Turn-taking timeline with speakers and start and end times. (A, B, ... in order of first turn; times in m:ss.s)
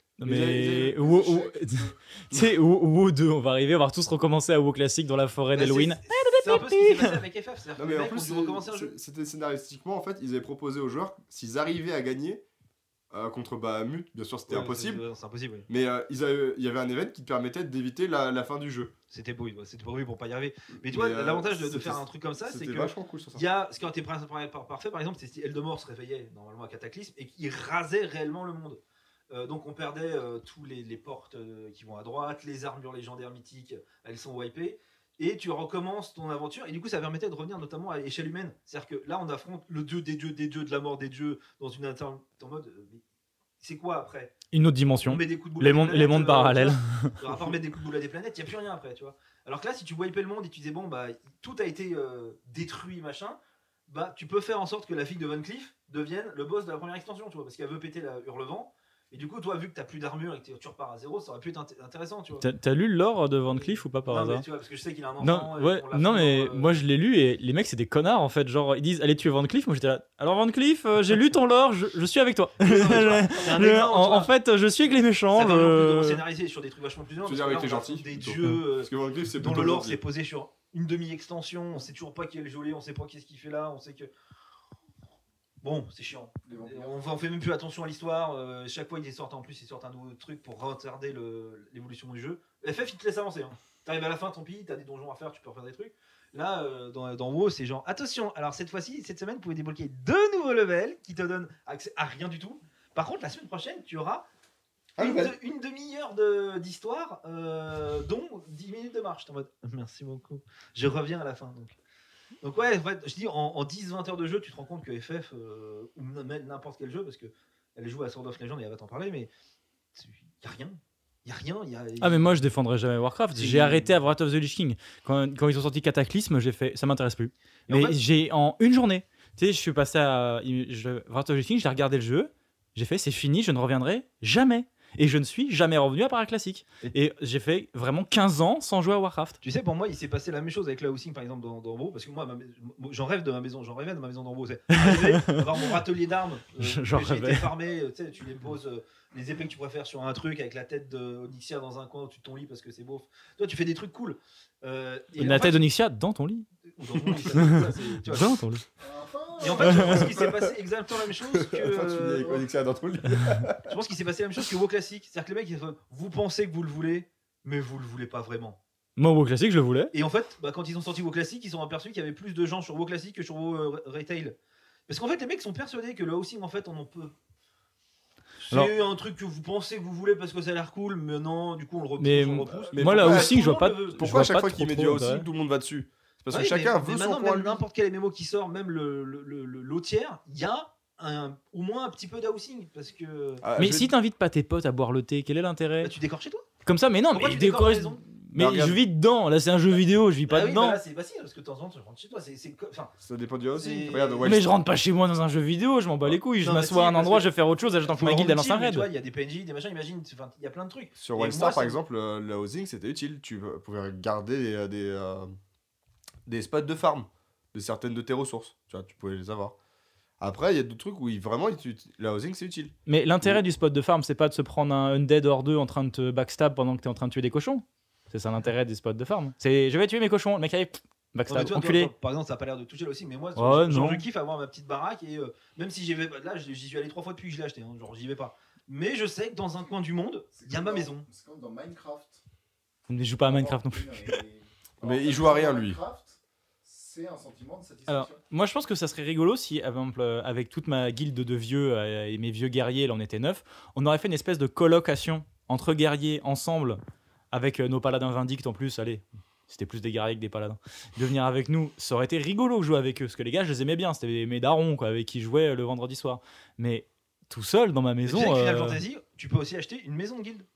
0:00.2-0:07.2 A
0:00.2-0:01.8 B
0:05.5-0:08.9 C
0:07.8-0:12.4 B
0:13.1-0:15.0 B
0:14.5-0:15.6 C
0:15.7-0:18.9 B
0:19.1-0:43.0 C
0:20.8-0:23.4 B
0:43.6-0:44.3 C
0:44.5-0:47.2 A
0:45.0-1:02.4 C
1:02.4-1:04.4 A
1:03.5-1:06.7 C
1:05.2-1:16.2 A
1:12.6-1:14.3 C
1:15.3-1:24.1 C
1:17.2-1:20.0 B
1:25.6-1:44.2 C
1:26.4-1:26.9 D
1:45.0-1:45.4 B
1:45.0-1:51.8 C
1:52.4-1:59.3 C
1:59.9-2:02.4 C
2:02.0-2:19.4 A
2:03.4-2:04.0 C
2:07.7-2:08.0 C
2:19.4-2:35.7 C
2:24.7-2:25.4 A
2:26.6-2:27.5 A
2:35.2-2:36.5 A
2:36.7-2:38.4 C
2:37.3-2:38.6 A
2:38.8-2:39.8 D
2:39.4-2:42.4 C
2:39.6-2:40.0 A
2:39.8-2:40.5 B
2:41.2-2:43.7 B
2:43.7-2:48.6 C
2:49.0-2:49.9 A
2:49.9-2:54.4 C
2:54.9-2:57.1 C
2:58.4-3:04.1 C
3:02.0-3:05.2 A
3:02.7-3:03.4 B
3:04.0-3:07.6 B
3:06.3-3:13.4 C
3:13.4-3:13.9 B
3:13.6-3:15.9 A
3:15.8-3:16.5 C
3:16.6-3:20.8 A
3:17.1-3:18.0 C
3:18.3-3:18.8 B
3:20.3-3:22.9 C
3:23.0-3:24.5 B
3:23.5-3:24.3 C
3:24.2-3:28.9 A
3:26.4-3:31.8 C
3:31.0-3:35.3 B
3:36.2-3:39.5 B
3:40.2-3:43.4 B
3:42.9-3:51.9 A
3:51.3-4:01.1 C
3:53.4-3:54.0 A
4:00.3-4:02.2 D
4:02.9-4:04.2 A
4:03.2-4:08.2 D
4:04.8-4:05.8 B
4:07.9-4:16.8 A
4:17.3-4:28.8 A
4:28.0-4:30.5 C